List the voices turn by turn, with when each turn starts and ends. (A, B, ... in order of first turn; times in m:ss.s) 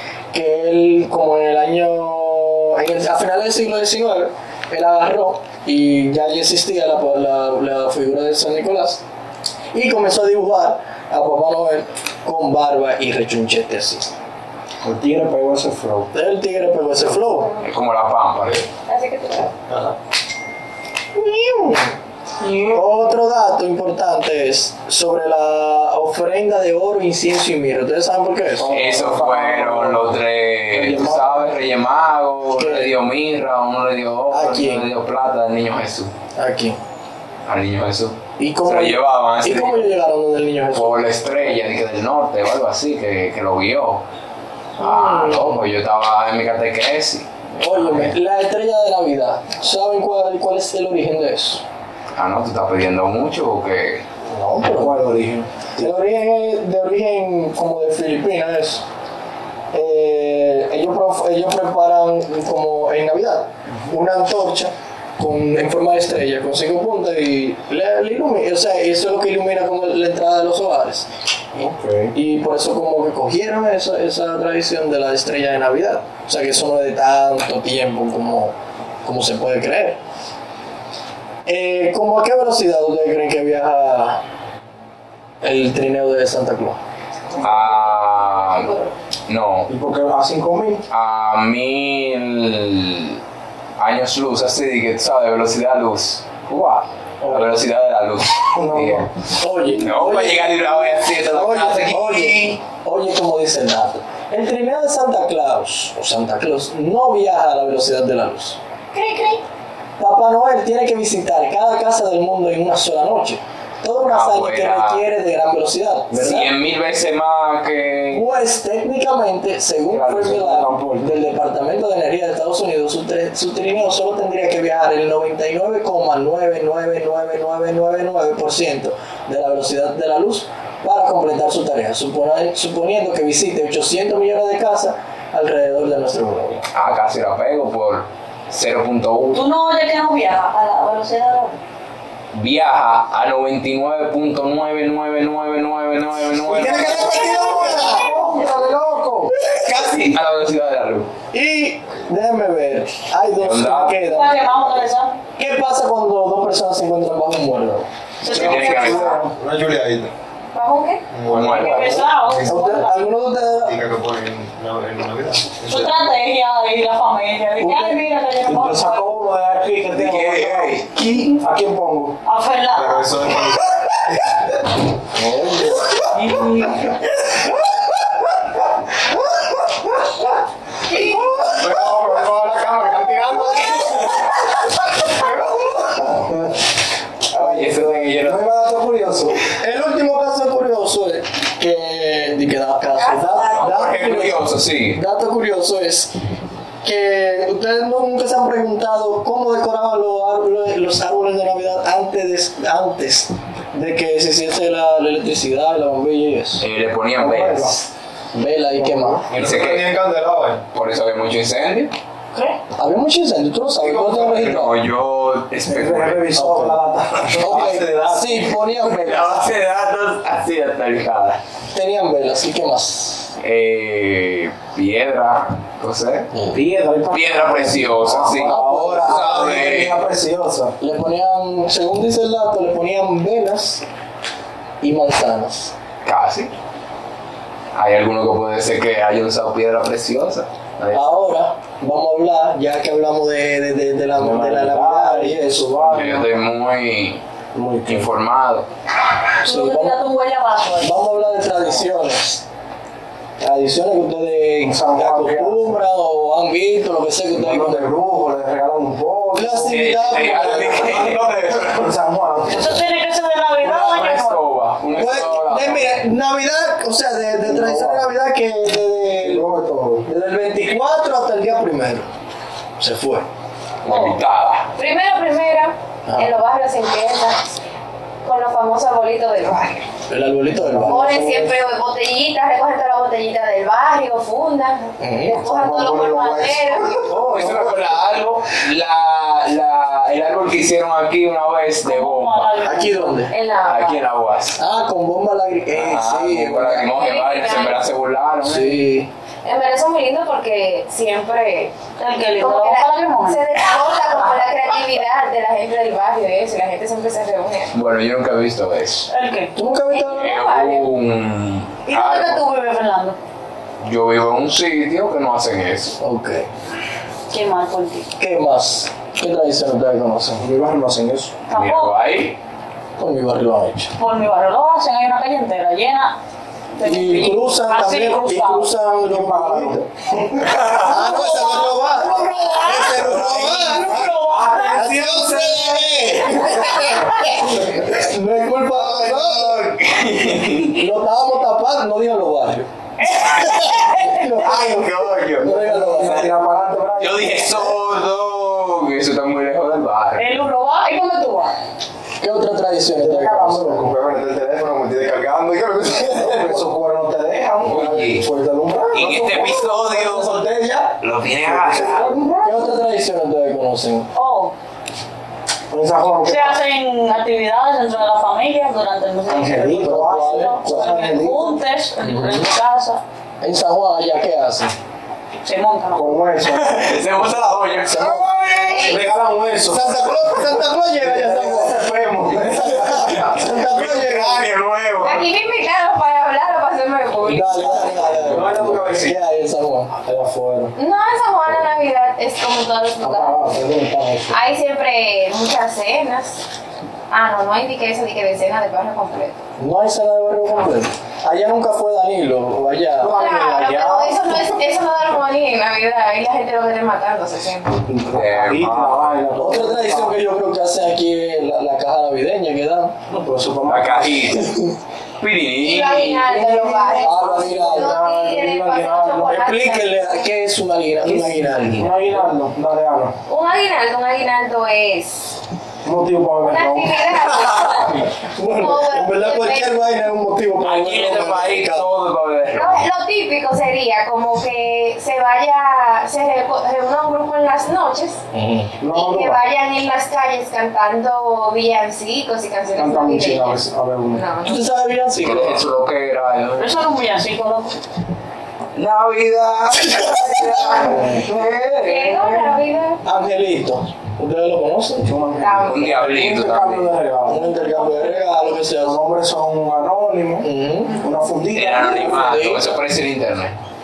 0:00.3-0:09.0 A
0:09.7-0:14.1 A
0:14.8-0:16.1 B
0:16.1-0:17.5 A
0:17.6-0:18.6 C
0:18.9-0:19.5 D
0:21.1-0:22.0 A
0:22.4-0:22.8 B
0:22.7-0:28.7 A
0:28.5-0:31.6 B
0:28.7-0:36.1 C
0:32.6-0:32.9 A
0:34.3-0:34.8 A
0:36.4-0:36.8 A
0:37.4-0:39.9 C
0:38.4-0:41.6 A
0:40.7-0:44.0 C
0:44.8-0:45.6 A
0:44.8-0:48.1 C
0:47.6-0:51.6 A
0:52.1-0:54.0 C
0:54.3-0:55.0 A
0:54.6-0:55.9 B
0:55.8-0:58.8 A
0:59.7-1:11.1 A
1:11.5-1:12.1 B
1:12.1-1:20.0 A
1:21.4-1:24.2 A
1:25.4-1:26.8 A
1:27.4-1:28.7 C
1:27.4-1:28.9 D
1:29.3-1:29.7 C
1:29.7-1:30.8 B
1:30.9-1:33.2 C
1:33.8-1:39.1 C
1:37.2-1:37.5 B
1:38.5-1:39.1 B
1:39.4-1:48.6 A
1:39.8-1:42.6 C
1:48.9-1:49.4 E
1:50.0-1:56.5 A
1:54.0-1:55.0 C
1:56.1-1:58.3 C
1:58.1-2:16.6 A
1:59.9-2:00.4 C
2:00.1-2:01.1 B
2:16.7-2:19.5 C
2:19.3-2:21.6 E
2:22.3-2:27.4 C
2:26.4-2:29.3 B
2:26.6-2:28.1 A
2:29.5-2:31.1 C
2:31.3-2:34.3 A
2:33.4-2:34.0 C
2:34.0-2:35.2 E
2:35.4-2:37.9 A
2:38.2-2:39.3 E
2:38.2-2:39.2 C
2:38.3-2:39.2 B
2:38.4-2:40.1 F
2:40.5-2:41.0 D
2:41.1-2:41.6 F
2:41.3-2:42.0 C
2:41.5-2:43.1 E
2:41.5-2:43.8 A
2:43.5-2:45.9 F
2:45.6-2:49.1 E
2:47.6-2:48.0 A
2:48.4-2:50.8 B
2:49.9-2:51.4 C
2:51.4-2:52.2 B
2:52.2-2:53.1 E
2:52.7-2:53.7 F
2:55.1-2:56.1 A
2:56.1-2:56.9 E
3:01.4-3:03.7 F
3:01.4-3:04.2 C
3:06.1-3:06.6 B
3:07.3-3:08.4 C
3:07.3-3:09.4 B
3:09.6-3:16.1 A
3:12.9-3:13.9 D
3:13.5-3:15.0 C
3:16.8-3:26.6 A
3:26.6-3:27.8 C
3:27.2-3:27.8 B
3:28.3-3:29.2 A
3:28.8-3:29.2 B
3:29.3-3:30.6 F
3:29.3-3:29.9 C
3:30.7-3:31.9 C
3:32.8-3:34.7 A
3:33.8-3:34.5 F
3:34.3-3:36.3 C
3:35.7-3:37.7 B
3:36.3-3:36.8 A
3:37.3-3:38.4 F
3:37.4-3:39.5 A
3:38.8-3:41.4 C
3:41.7-3:43.3 A
3:43.4-3:46.3 C
3:46.5-3:50.7 B
3:47.1-3:50.0 C
3:48.3-3:49.4 A
3:50.8-3:53.8 A
3:54.8-3:55.7 A
3:56.0-3:56.5 C
3:57.7-4:01.1 C
4:00.9-4:05.8 A
4:04.1-4:06.4 B
4:05.9-4:07.2 C
4:07.5-4:08.1 B
4:07.8-4:08.7 C
4:09.4-4:10.0 A
4:09.4-4:10.9 E
4:10.8-4:12.4 A
4:13.4-4:17.9 A
4:14.6-4:15.8 B
4:17.3-4:22.8 B
4:19.3-4:21.0 A
4:19.6-4:21.6 C
4:20.8-4:21.8 F
4:22.5-4:24.4 E
4:23.6-4:26.0 C
4:24.9-4:29.4 A
4:27.4-4:28.1 B
4:29.2-4:30.0 B
4:30.0-4:32.1 A
4:32.8-4:33.3 A
4:33.8-4:34.7 C
4:33.8-4:34.2 E
4:34.8-4:37.4 D
4:38.2-4:39.8 D
4:40.1-4:41.5 A
4:40.5-4:41.5 B
4:40.8-4:47.0 D
4:45.0-4:45.4 A
4:45.4-4:47.6 B
4:47.0-4:52.6 C
4:47.3-4:47.7 A
4:51.8-4:53.3 E
4:52.6-4:53.3 A
4:53.3-4:54.0 D
4:53.6-4:54.6 C
4:54.6-4:56.9 A
4:55.7-4:58.9 C
4:56.9-4:57.8 D
4:58.4-4:59.1 A
4:59.4-5:01.7 D
5:02.0-5:03.5 E
5:02.4-5:07.7 D
5:07.7-5:09.1 C
5:09.1-5:09.5 E
5:09.5-5:10.3 A
5:09.9-5:10.9 D
5:10.1-5:12.4 C
5:11.9-5:13.2 E
5:13.8-5:16.0 C
5:16.0-5:16.5 A
5:17.3-5:18.1 E
5:18.2-5:20.4 A
5:20.4-5:21.3 B
5:21.5-5:21.9 E
5:21.5-5:22.4 C
5:23.0-5:23.9 A
5:24.0-5:26.1 E
5:26.8-5:28.7 E
5:26.8-5:29.8 A
5:29.0-5:30.8 B
5:30.4-5:31.2 C
5:30.7-5:34.1 A
5:31.1-5:33.1 E
5:32.6-5:34.0 C
5:32.8-5:33.5 B
5:33.7-5:34.8 E
5:34.3-5:35.2 F
5:34.7-5:35.9 C
5:34.7-5:39.6 A
5:36.4-5:37.8 B
5:38.7-5:40.8 C
5:40.6-5:46.2 A
5:43.0-5:44.2 E
5:43.0-5:45.5 C
5:45.4-5:47.7 B
5:47.0-5:50.3 C
5:50.2-5:51.5 E
5:52.2-5:53.8 A
5:53.0-5:54.0 B
5:53.8-5:56.6 F
5:56.0-6:00.9 B
5:57.6-5:58.2 C
5:58.9-6:00.5 C
6:01.0-6:02.1 C
6:01.4-6:02.8 B
6:02.4-6:04.1 A
6:04.1-6:04.5 E
6:05.7-6:06.6 B
6:06.2-6:13.0 E
6:09.3-6:11.6 B
6:09.6-6:11.2 A
6:12.0-6:12.5 A
6:13.4-6:14.7 A
6:15.4-6:16.1 E
6:15.9-6:17.3 B
6:16.4-6:18.3 C
6:17.9-6:18.3 A
6:17.9-6:24.0 B
6:18.7-6:19.0 D
6:19.6-6:21.8 A
6:22.6-6:24.4 A
6:23.7-6:25.1 C
6:25.0-6:28.1 D
6:27.2-6:29.9 A
6:27.9-6:28.8 B
6:28.2-6:29.2 F
6:29.9-6:30.7 B
6:30.8-6:33.4 D
6:33.0-6:34.4 B
6:34.3-6:36.4 D
6:37.1-6:39.4 D
6:39.6-6:44.2 A
6:43.0-6:43.9 B
6:43.0-6:47.8 D
6:47.8-6:50.2 B
6:48.1-6:49.2 C
6:49.4-6:52.9 A
6:53.1-6:54.4 B
6:53.7-6:54.4 C
6:54.3-6:54.7 A
6:55.2-6:56.4 C
6:55.6-7:00.1 D
6:56.2-6:59.5 B
6:57.0-6:57.9 A
6:59.3-7:02.0 A
7:01.0-7:03.1 B
7:03.3-7:05.4 D
7:05.8-7:07.2 B
7:06.5-7:09.8 D
7:07.4-7:07.8 C
7:08.0-7:11.9 A
7:10.6-7:12.8 C
7:12.5-7:18.2 D
7:18.3-7:18.7 A
7:18.8-7:19.4 B
7:18.9-7:23.6 D
7:22.7-7:24.2 B
7:24.1-7:24.6 D
7:24.4-7:25.6 A
7:25.2-7:26.7 C
7:26.6-7:27.7 E
7:28.7-7:32.5 C
7:30.5-7:31.5 B
7:31.8-7:33.0 D
7:33.0-7:35.1 A
7:35.0-7:37.4 B
7:35.4-7:36.0 D
7:35.6-7:37.0 C
7:37.2-7:39.0 A
7:37.5-7:38.1 E
7:38.8-7:42.4 B
7:40.4-7:41.0 A
7:41.5-7:43.5 C
7:42.0-7:42.8 A